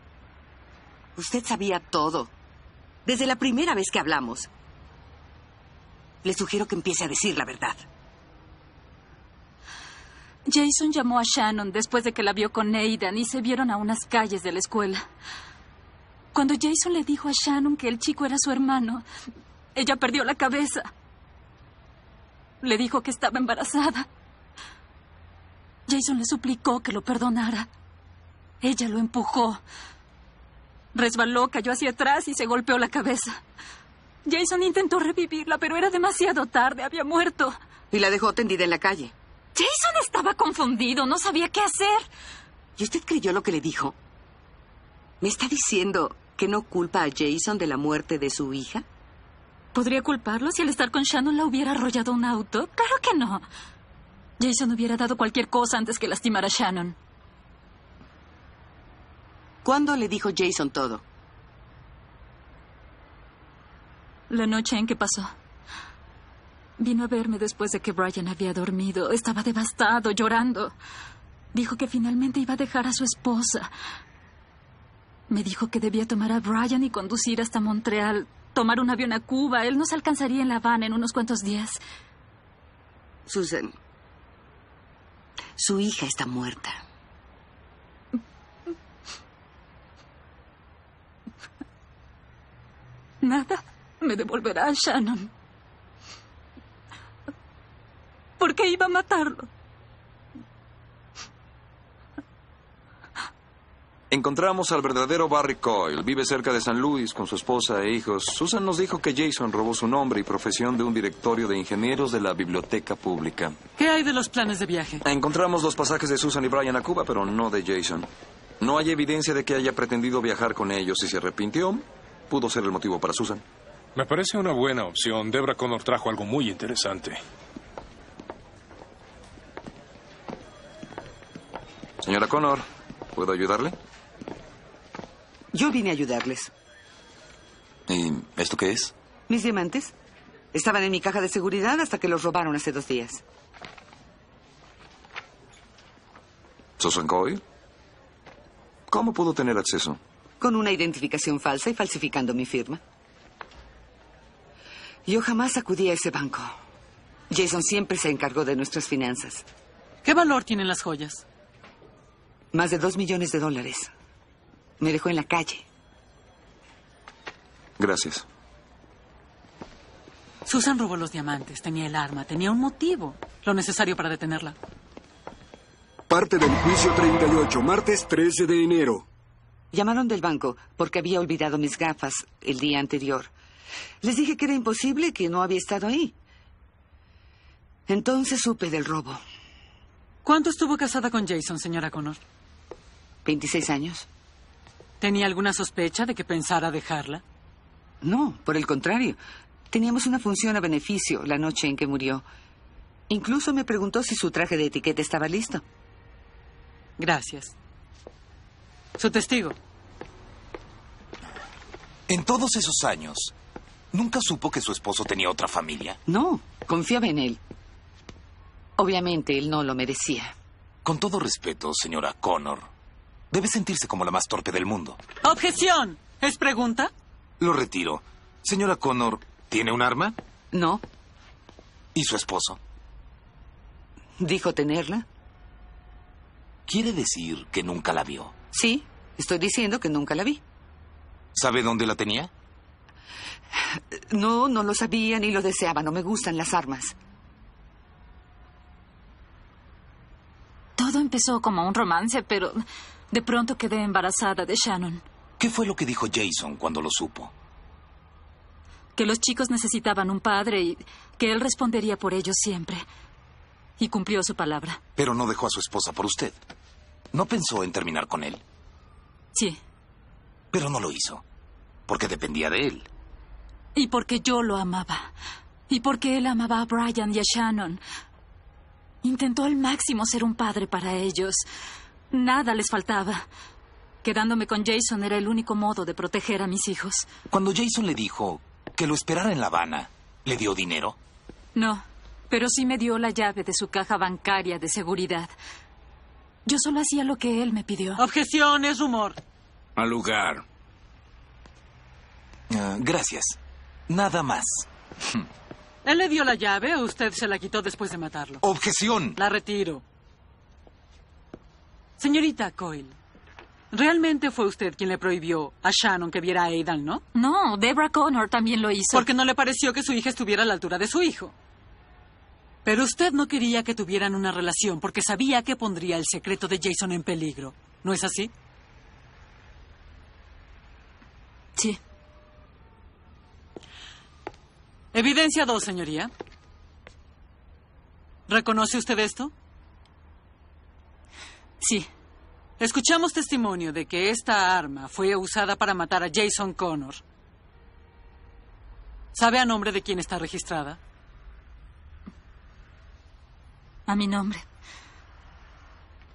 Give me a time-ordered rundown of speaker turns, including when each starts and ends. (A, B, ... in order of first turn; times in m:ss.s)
0:01.2-0:02.3 A
0:03.0-0:04.5 A
0:06.2-0:07.8 A
0:10.5-0:15.0 B
0:16.3-0:19.0 B
0:19.7-0:20.9 B
0:22.6-0:24.1 B
0:25.9-0:27.7 B
0:28.6-0:29.6 B
0:30.9-0:33.4 B
0:34.2-0:37.6 B
0:37.9-0:39.1 A
0:39.5-0:42.1 B
0:42.8-0:43.9 A
0:45.2-0:48.8 A
0:49.7-0:53.4 B
0:54.4-0:57.0 B
0:59.6-1:01.0 A
1:04.3-1:05.3 B
1:06.8-1:10.7 B
1:11.5-1:13.7 B
1:15.3-1:21.8 B
1:23.2-1:23.7 A
1:25.6-1:26.8 A
1:33.2-1:35.3 B
1:38.4-1:39.5 B
1:44.1-1:53.6 C
1:53.8-1:55.0 D
1:55.0-2:03.4 C
2:03.9-2:07.2 E
2:12.0-2:13.8 C
2:15.5-2:16.5 F
2:17.9-2:18.9 C
2:19.3-2:19.9 F
2:20.5-2:23.2 F
2:26.8-2:27.4 C
2:28.9-2:30.0 C
2:30.4-2:32.8 F
2:35.1-2:36.5 F
2:37.3-2:39.4 F
2:40.0-2:41.2 D
2:42.5-2:43.9 F
2:44.8-2:45.6 F
2:47.8-2:48.2 C
2:50.4-2:54.5 D
2:56.1-2:59.0 G
2:59.7-3:03.3 F
3:04.0-3:06.1 F
3:07.9-3:09.2 F
3:10.2-3:12.2 D
3:13.2-3:14.0 F
3:15.0-3:17.2 D
3:18.0-3:19.2 F
3:19.7-3:22.2 F
3:23.1-3:25.6 F
3:27.0-3:27.5 D
3:29.0-3:29.6 D
3:32.1-3:33.3 H
3:33.9-3:36.0 H
3:36.1-3:37.4 F
3:38.8-3:40.3 F
3:40.8-3:42.7 H
3:43.3-3:45.0 H
3:45.2-3:46.9 D
3:47.4-3:50.2 H
3:50.5-3:50.8 F
3:51.9-3:52.6 H
3:54.2-3:55.0 F
3:56.7-3:58.3 H
3:58.5-4:00.4 F
4:01.3-4:02.3 H
4:03.9-4:06.9 F
4:10.8-4:15.0 B
4:15.4-4:17.3 H
4:19.0-4:22.8 B
4:23.8-4:24.8 B
4:25.0-4:26.4 H
4:27.1-4:28.4 H
4:30.5-4:31.2 H
4:31.9-4:32.9 H
4:33.7-4:35.1 B
4:35.7-4:37.8 B
4:39.0-4:41.4 B
4:42.1-4:43.3 B
4:44.0-4:47.1 B
4:47.3-4:51.0 H
4:51.5-4:55.3 B
4:56.4-4:58.0 B
4:58.0-4:59.2 D
4:59.8-5:00.4 H
5:02.5-5:04.7 H
5:05.8-5:08.4 D
5:08.4-5:09.2 H
5:09.2-5:09.8 D
5:12.0-5:13.0 D
5:13.7-5:17.0 D
5:17.1-5:19.1 B
5:18.9-5:21.3 D
5:22.6-5:28.3 D
5:34.9-5:36.1 D
5:38.3-5:39.3 D
5:41.6-5:41.9 B
5:42.6-5:47.0 D
5:49.1-5:50.8 D
5:53.9-5:54.4 B